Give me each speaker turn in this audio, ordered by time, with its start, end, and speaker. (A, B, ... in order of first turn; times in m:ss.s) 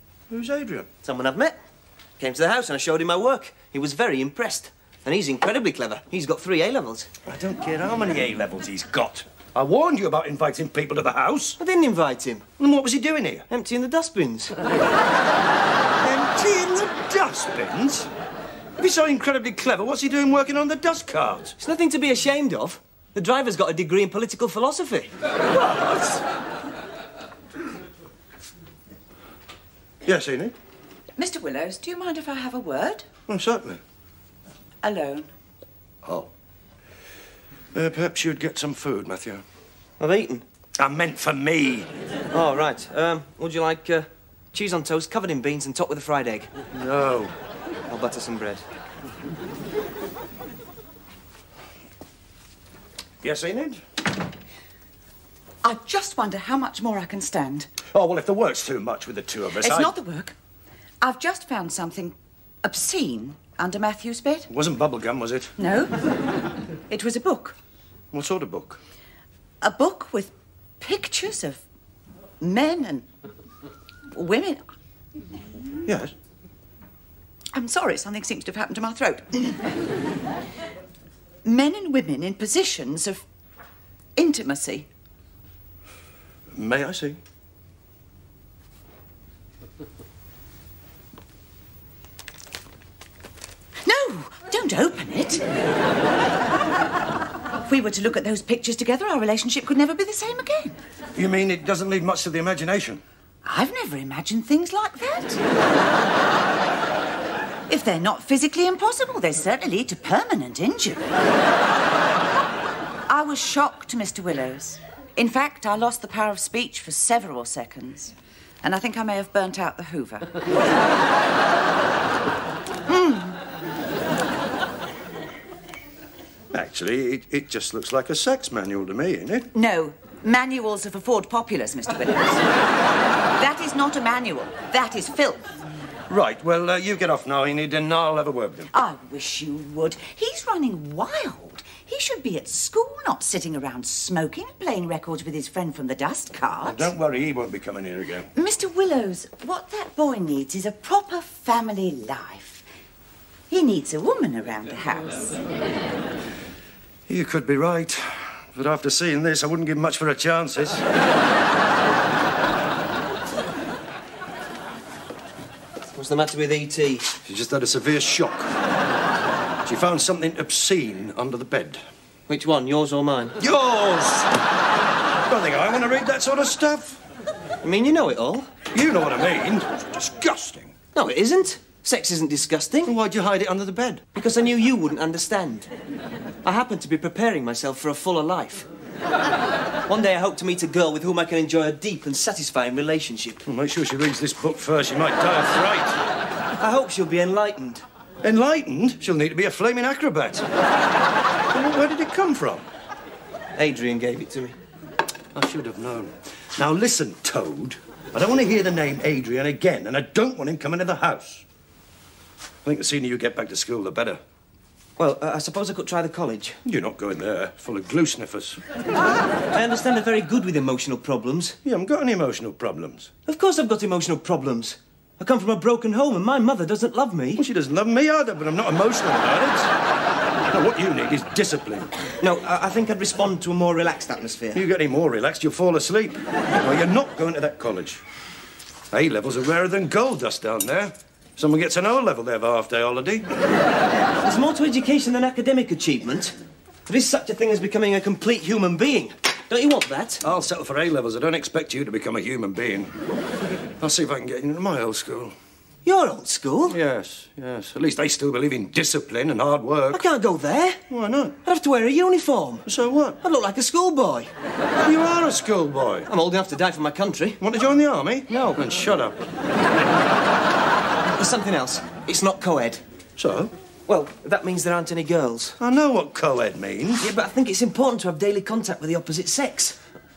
0:00.3-0:00.9 A
0:01.0-0:01.6 B
0:02.2-0:07.1 B
0:07.2-0:11.6 A
0:11.6-0:12.5 B
0:12.6-0:13.5 A
0:13.5-0:14.6 B
0:16.0-0:18.1 A
0:18.8-0:21.6 A
0:21.6-0:25.1 B
0:25.4-0:26.2 A
0:30.0-0:30.5 A
0:31.2-0:33.0 C
0:33.3-0:33.8 A
0:34.8-0:35.3 C
0:36.0-0:36.3 A
0:37.7-0:39.4 A
0:40.0-0:40.4 B
0:40.8-0:41.9 A
0:42.3-0:46.5 B
0:46.7-0:47.3 A
0:47.9-0:48.6 B
0:53.2-0:53.8 A
0:55.6-0:57.7 C
0:57.9-0:59.9 A
0:59.6-1:00.4 C
1:01.0-1:04.5 C
1:04.5-1:05.5 A
1:05.6-1:05.9 C
1:06.9-1:07.6 C
1:08.1-1:08.8 A
1:09.6-1:11.6 C
1:12.4-1:13.0 C
1:14.1-1:14.6 C
1:15.8-1:16.1 A
1:17.5-1:19.6 C
1:21.4-1:23.2 C
1:24.2-1:24.9 C
1:26.5-1:27.2 A
1:33.8-1:35.4 C
1:37.6-1:40.8 C
1:41.2-1:43.0 A
1:43.4-1:45.4 C
1:47.7-1:51.1 C
1:53.1-2:00.4 C
2:02.8-2:03.4 C
2:06.5-2:09.5 A
2:09.5-2:12.4 C
2:13.4-2:15.4 C
2:16.1-2:18.7 A
2:18.7-2:26.9 C
2:26.6-2:28.3 A
2:28.3-2:32.6 C
2:33.5-2:35.4 C
2:37.1-2:40.8 A
2:45.9-2:47.1 B
2:47.2-2:48.5 A
2:49.6-2:51.8 A
2:52.3-2:53.4 B
2:53.4-2:54.4 A
2:55.2-2:57.0 A
2:57.6-2:58.5 B
2:58.7-3:00.7 A
3:00.9-3:02.9 B
3:02.8-3:04.0 A
3:04.1-3:05.7 B
3:06.4-3:08.6 B
3:09.9-3:13.4 B
3:13.4-3:16.0 A
3:16.6-3:17.8 B
3:18.2-3:20.5 A
3:21.5-3:22.7 A
3:23.6-3:24.6 B
3:25.3-3:31.4 A
3:32.6-3:34.2 A
3:35.0-3:36.6 B
3:36.6-3:38.6 A
3:39.5-3:41.6 B
3:41.6-3:43.1 A
3:43.2-3:47.4 B
3:47.4-3:49.7 A
3:50.5-3:51.9 A
3:52.2-3:54.6 B
3:54.5-3:58.0 A
3:58.9-4:03.3 A
4:04.2-4:06.3 B
4:06.8-4:10.2 B
4:10.2-4:12.9 A
4:13.8-4:15.3 A
4:15.8-4:16.8 B
4:16.7-4:20.0 A
4:19.9-4:20.8 B
4:20.9-4:21.4 A
4:21.4-4:22.6 B
4:22.6-4:23.2 A
4:23.2-4:24.3 B
4:24.8-4:26.1 A
4:26.1-4:27.4 B
4:27.4-4:29.2 A
4:31.2-4:32.8 B
4:33.2-4:33.5 A
4:33.9-4:35.6 B
4:35.6-4:37.1 A
4:37.0-4:39.8 B